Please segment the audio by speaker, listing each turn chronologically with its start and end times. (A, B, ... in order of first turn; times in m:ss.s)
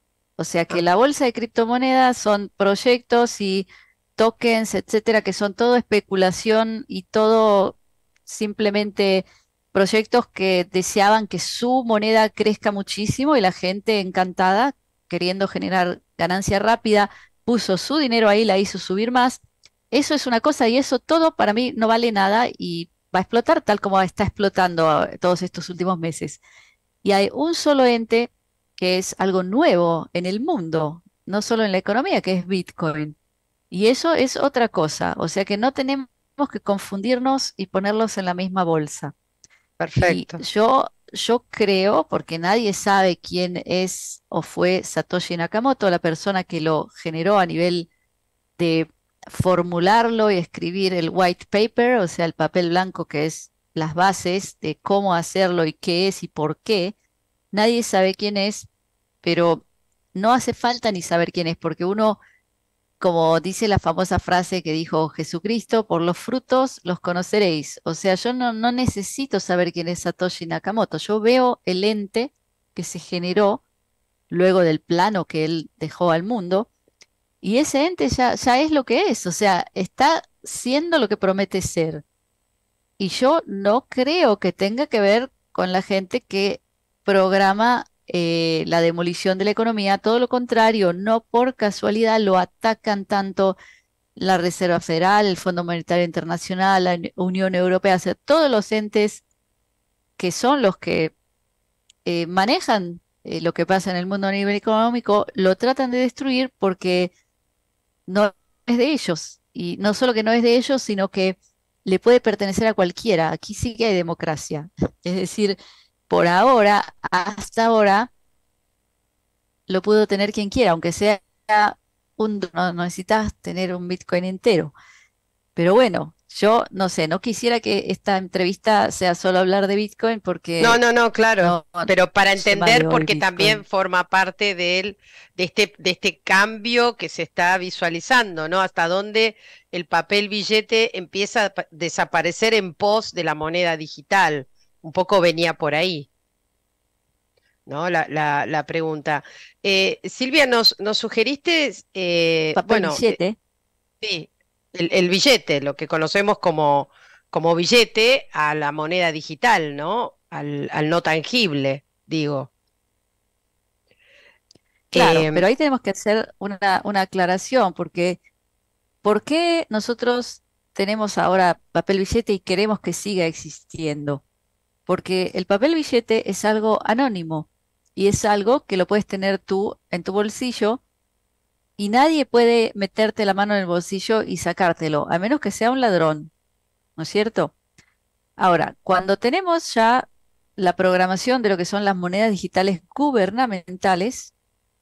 0:00.4-0:26.4 A
0:27.0-0:33.2 A
0:33.7-0:39.1 A
0:39.8-0:40.4 B
0:40.0-0:47.9 A
0:48.6-0:56.9 A
0:57.5-0:58.7 A
0:59.2-0:59.6 A
1:00.2-1:02.2 A
1:03.0-1:13.6 A
1:14.3-1:16.7 A
1:17.4-1:22.0 A
1:23.0-1:33.6 A
1:34.2-1:39.2 A
1:40.2-1:41.1 A
1:42.0-1:47.1 A
1:48.1-1:55.6 A
1:56.1-1:58.1 A
1:59.7-2:04.7 A
2:05.6-2:10.8 A
2:10.6-2:26.1 B
2:11.4-2:13.6 A
2:27.7-2:33.2 B
2:32.6-2:33.4 A
2:34.0-2:42.5 B
2:44.9-2:45.5 B
2:44.9-2:48.2 A
2:49.0-2:54.2 A
2:54.9-3:00.8 A
3:01.8-3:06.3 A
3:07.0-3:07.5 A
3:08.4-3:14.3 A